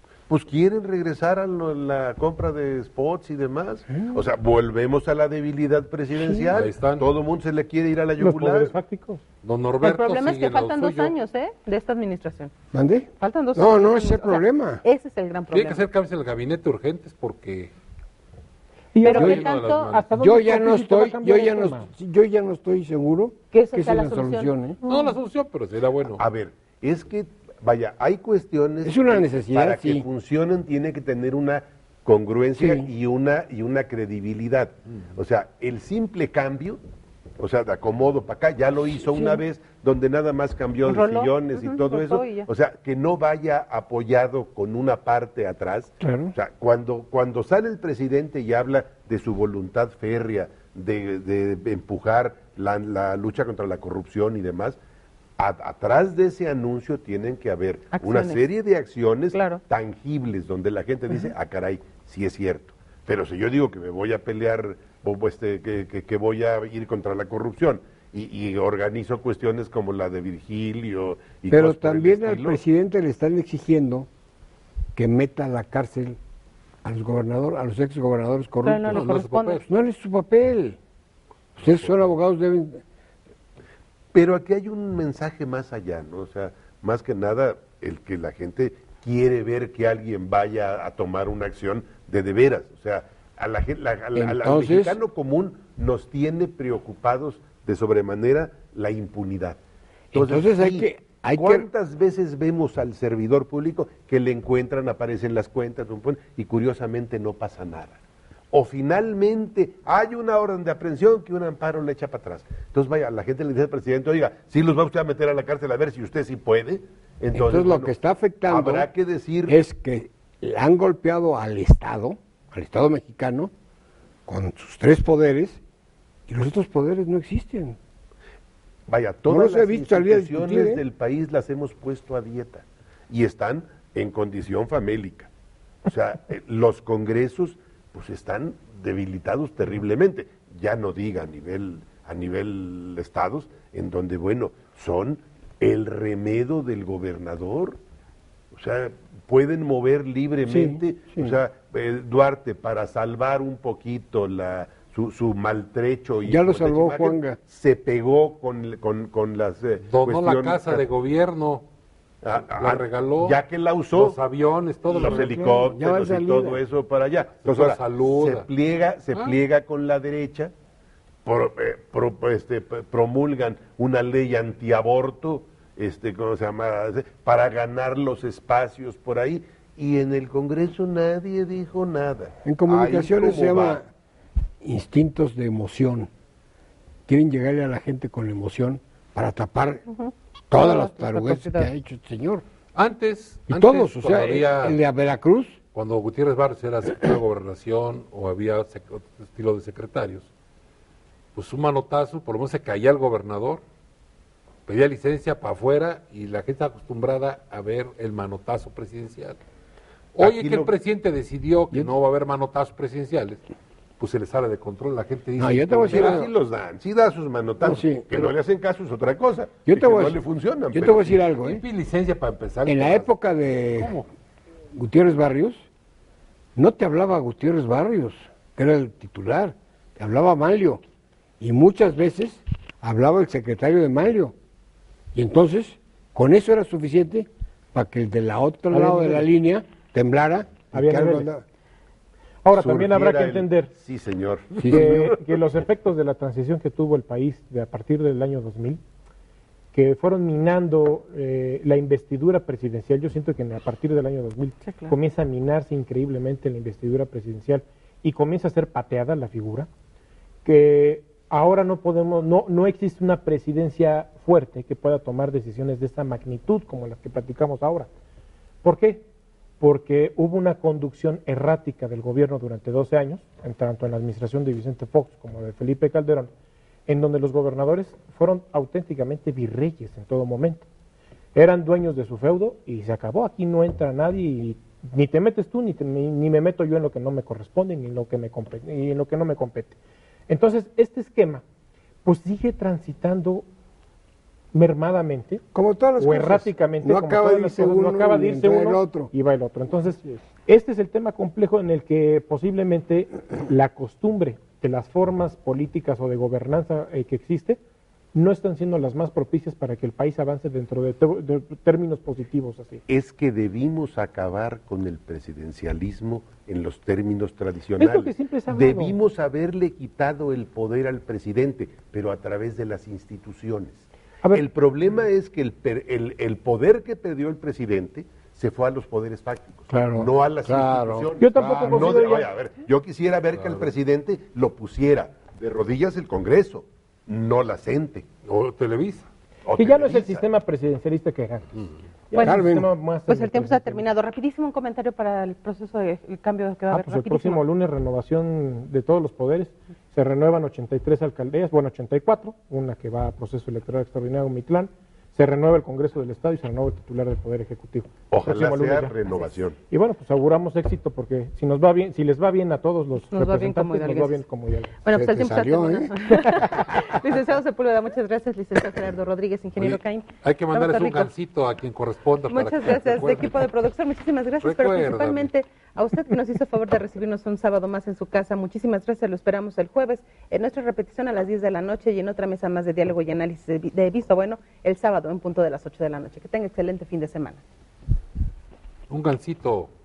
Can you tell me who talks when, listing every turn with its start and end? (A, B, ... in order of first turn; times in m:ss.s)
0:00.3-0:08.7 A
0:06.2-0:06.4 B
0:06.5-0:07.1 C
0:08.2-0:09.2 B
0:09.4-0:11.1 C
0:09.8-0:12.5 D
0:12.7-0:14.8 E
0:13.2-0:15.9 D
0:15.5-0:17.7 C
0:18.9-0:21.9 B
0:19.0-0:19.9 D
0:19.1-0:20.1 C
0:19.2-0:19.4 E
0:20.2-0:24.8 E
0:23.5-0:25.2 D
0:24.8-0:26.2 C
0:26.1-0:36.8 A
0:28.8-0:30.1 E
0:32.6-0:32.9 E
0:37.4-0:54.8 A
0:39.1-0:39.4 D
0:40.8-0:42.5 D
0:46.0-0:46.3 E
0:55.4-1:12.6 A
0:57.9-0:58.5 D
0:59.3-0:59.6 D
1:11.5-1:14.1 E
1:15.0-1:16.2 E
1:16.8-1:19.2 E
1:18.6-1:19.6 D
1:18.9-1:19.6 C
1:19.7-1:20.8 E
1:21.6-1:22.8 E
1:24.1-1:39.6 A
1:34.1-1:35.0 E
1:40.1-1:41.7 E
1:40.1-1:48.0 A
1:48.5-1:57.9 A
1:57.3-1:58.9 E
1:58.5-1:59.6 A
1:59.5-2:03.5 E
2:04.3-2:05.6 E
2:06.3-2:07.8 E
2:08.9-2:15.3 A
2:09.3-2:10.8 E
2:15.8-2:27.8 A
2:28.5-2:40.8 A
2:30.4-2:31.4 E
2:36.2-2:37.4 E
2:39.8-2:41.6 C
2:42.2-2:44.2 A
2:42.4-2:43.4 C
2:43.9-2:45.6 C
2:44.9-2:50.5 A
2:44.9-2:46.6 E
2:47.3-2:48.5 C
2:49.1-2:49.4 C
2:51.2-3:03.8 A
3:02.4-3:03.9 E
3:04.6-3:06.1 E
3:07.1-3:09.8 E
3:09.9-3:11.7 D
3:10.5-3:12.4 E
3:12.8-3:14.8 C
3:13.5-3:15.6 E
3:15.7-3:20.3 C
3:21.3-3:23.6 C
3:24.7-3:29.4 C
3:30.2-3:33.4 C
3:30.2-3:30.7 A
3:34.0-3:36.2 C
3:35.4-3:36.3 E
3:35.9-3:41.2 A
3:37.6-3:38.3 E
3:39.7-3:40.2 E
3:40.7-3:41.6 E
3:41.4-3:44.1 C
3:42.6-3:44.0 E
3:44.7-3:45.7 E
3:46.6-3:50.8 E
3:51.4-3:54.3 E
3:55.1-4:01.4 E
3:58.7-3:59.3 B
4:00.7-4:01.3 B
4:02.4-4:03.7 B
4:02.5-4:05.2 A
4:04.6-4:05.1 E
4:04.6-4:08.8 B
4:09.7-4:19.7 B
4:14.6-4:14.9 D
4:20.4-4:27.9 B
4:28.6-4:29.0 B
4:29.6-4:36.3 B
4:36.9-4:40.7 B
4:41.3-4:49.8 B
4:50.3-4:51.4 B
4:52.0-4:53.4 B
4:54.5-4:55.4 B
4:55.5-4:59.1 E
4:56.0-5:07.6 B
5:08.1-5:12.8 B
5:12.9-5:38.0 A
5:17.8-5:19.0 B
5:29.7-5:32.1 E
5:31.2-5:32.3 B
5:33.3-5:33.7 C
5:38.2-5:39.1 C
5:39.4-5:40.2 A
5:39.5-5:43.8 B
5:42.2-5:42.7 E
5:43.1-5:47.4 D
5:46.7-6:04.8 B
5:58.1-5:59.6 A
6:03.1-6:04.3 D
6:04.8-6:11.1 D
6:04.9-6:06.0 E
6:09.6-6:13.5 C
6:12.3-6:27.4 D
6:14.4-6:15.3 C
6:28.9-6:29.7 C